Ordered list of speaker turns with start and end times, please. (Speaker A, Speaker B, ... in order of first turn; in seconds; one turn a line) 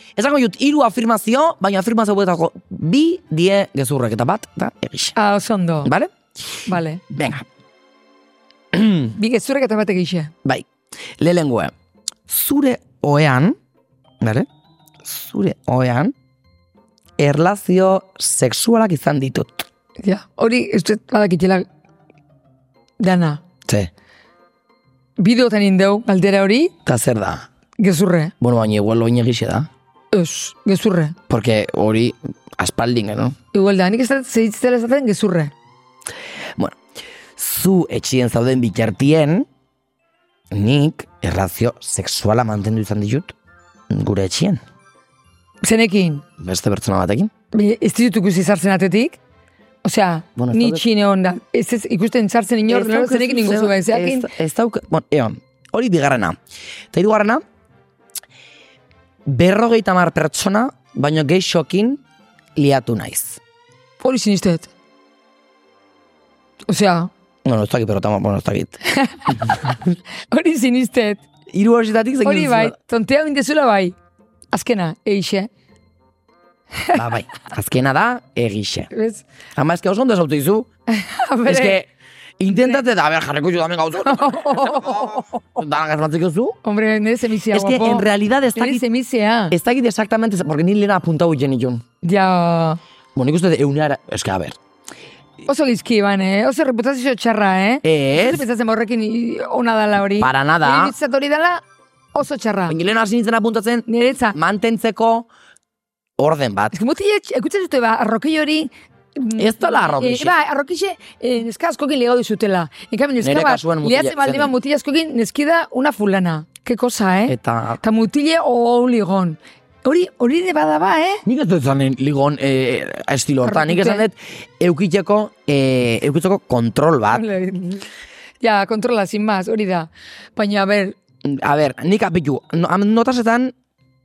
Speaker A: 0.1-5.2
Speaker B: 5.2-5.9
Speaker A: 5.8-7.5
Speaker B: 6.7-7.0
Speaker A: 8.7-9.1
Speaker B: 9.2-10.3
Speaker A: 10.4-11.7
Speaker A: 12.3-13.6
Speaker A: 14.2-14.5
Speaker A: 15.0-16.1
Speaker A: 17.2-19.6
Speaker B: 20.0-21.6
Speaker B: 23.0-23.4
Speaker B: 25.2-26.7
Speaker A: 26.9-27.5
Speaker B: 27.8-28.3
Speaker A: 28.4-29.7
Speaker B: 30.1-31.2
Speaker A: 31.3-33.4
Speaker B: 33.5-35.5
Speaker A: 37.4-39.5
Speaker A: 40.5-43.4
Speaker A: 43.9-44.6
Speaker B: 45.6-46.2
Speaker A: 46.4-47.3
Speaker B: 47.5-49.2
Speaker B: 49.8-54.3
Speaker A: 50.4-50.8
Speaker A: 52.7-56.4
Speaker A: 56.9-57.4
Speaker A: 59.2-62.0
Speaker A: 62.5-63.4
Speaker B: 64.0-64.7
Speaker B: 66.7-67.1
Speaker A: 67.4-69.7
Speaker B: 68.8-69.7
Speaker B: 70.3-71.2
Speaker A: 71.5-72.7
Speaker B: 72.2-73.9
Speaker B: 74.5-75.5
Speaker A: 76.9-78.9
Speaker B: 78.9-79.2
Speaker A: 79.5-80.7
Speaker B: 80.9-81.8
Speaker A: 81.4-86.6
Speaker B: 84.0-85.3
Speaker B: 86.6-89.5
Speaker A: 87.5-88.8
Speaker A: 89.5-91.8
Speaker B: 92.0-92.8
Speaker A: 93.1-94.6
Speaker B: 95.4-101.6
Speaker A: 97.8-98.4
Speaker A: 100.2-100.9
Speaker B: 102.1-102.8
Speaker A: 102.7-105.3
Speaker B: 103.9-104.3
Speaker A: 106.2-106.8
Speaker B: 106.7-121.2
Speaker A: 109.4-110.3
Speaker A: 113.2-114.5
Speaker A: 117.3-117.8
Speaker A: 121.2-127.2
Speaker B: 123.4-124.0
Speaker B: 127.1-127.8
Speaker B: 128.4-130.9
Speaker A: 131.2-133.5